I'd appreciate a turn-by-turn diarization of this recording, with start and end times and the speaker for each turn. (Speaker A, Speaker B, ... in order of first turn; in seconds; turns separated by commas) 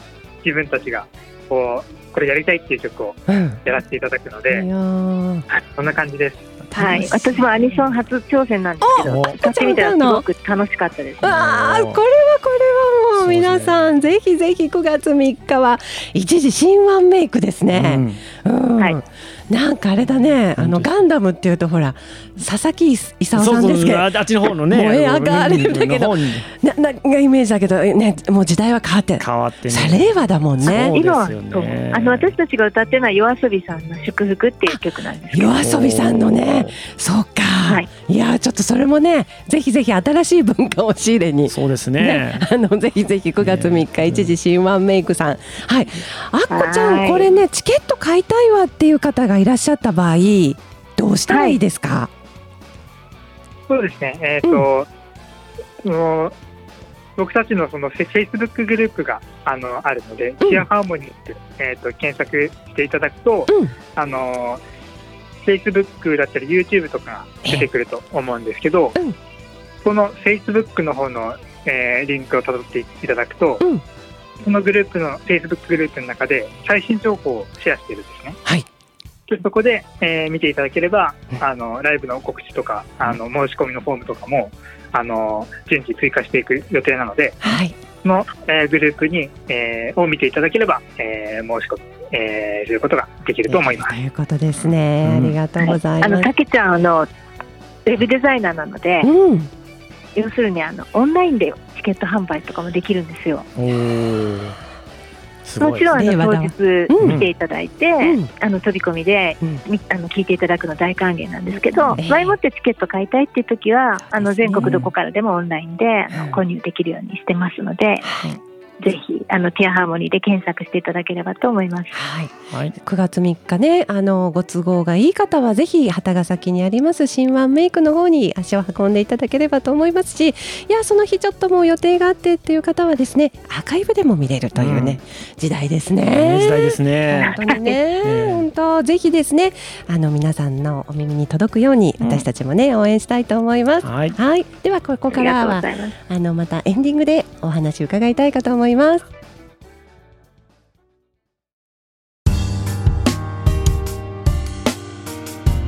Speaker A: 0.4-4.7, Speaker B: 3.3-3.6, Speaker B: 4.5-5.5, Speaker A: 5.5-6.5, Speaker B: 6.7-7.4, Speaker C: 6.8-11.3, Speaker B: 8.8-10.2, Speaker D: 9.0-9.4, Speaker D: 11.2-12.0, Speaker B: 11.2-30.9, Speaker D: 13.2-13.9, Speaker D: 17.7-18.2, Speaker D: 20.6-20.9, Speaker D: 23.3-26.5, Speaker D: 29.2-32.3, Speaker C: 30.6-35.5, Speaker B: 35.3-52.1, Speaker D: 35.6-36.8, Speaker D: 41.5-42.4, Speaker D: 43.4-44.3, Speaker C: 46.5-47.4, Speaker C: 51.3-51.6, Speaker A: 53.7-54.9, Speaker A: 55.8-56.3, Speaker A: 57.2-64.6, Speaker B: 63.5-63.7, Speaker A: 65.4-69.0, Speaker A: 69.8-73.6, Speaker A: 74.4-78.4, Speaker A: 79.3-87.5, Speaker B: 87.4-87.7, Speaker A: 88.0-94.0, Speaker B: 93.5-96.3, Speaker D: 94.6-95.4, Speaker C: 95.6-97.1, Speaker C: 97.8-99.1, Speaker B: 99.0-99.5, Speaker C: 100.1-103.5, Speaker D: 103.5-104.6, Speaker D: 105.4-105.9, Speaker C: 105.6-118.0, Speaker B: 105.9-107.2, Speaker D: 107.0-107.3, Speaker B: 108.0-108.3, Speaker B: 112.0-112.3, Speaker B: 114.1-114.9, Speaker D: 114.6-114.9, Speaker B: 116.1-116.4, Speaker B: 118.0-118.3, Speaker C: 118.8-122.0, Speaker B: 121.9-149.1, Speaker D: 122.5-122.8, Speaker D: 134.5-135.0, Speaker D: 136.0-137.4, Speaker C: 137.1-137.8, Speaker D: 138.0-138.5, Speaker D: 142.0-142.2, Speaker D: 143.8-144.2, Speaker C: 145.1-145.9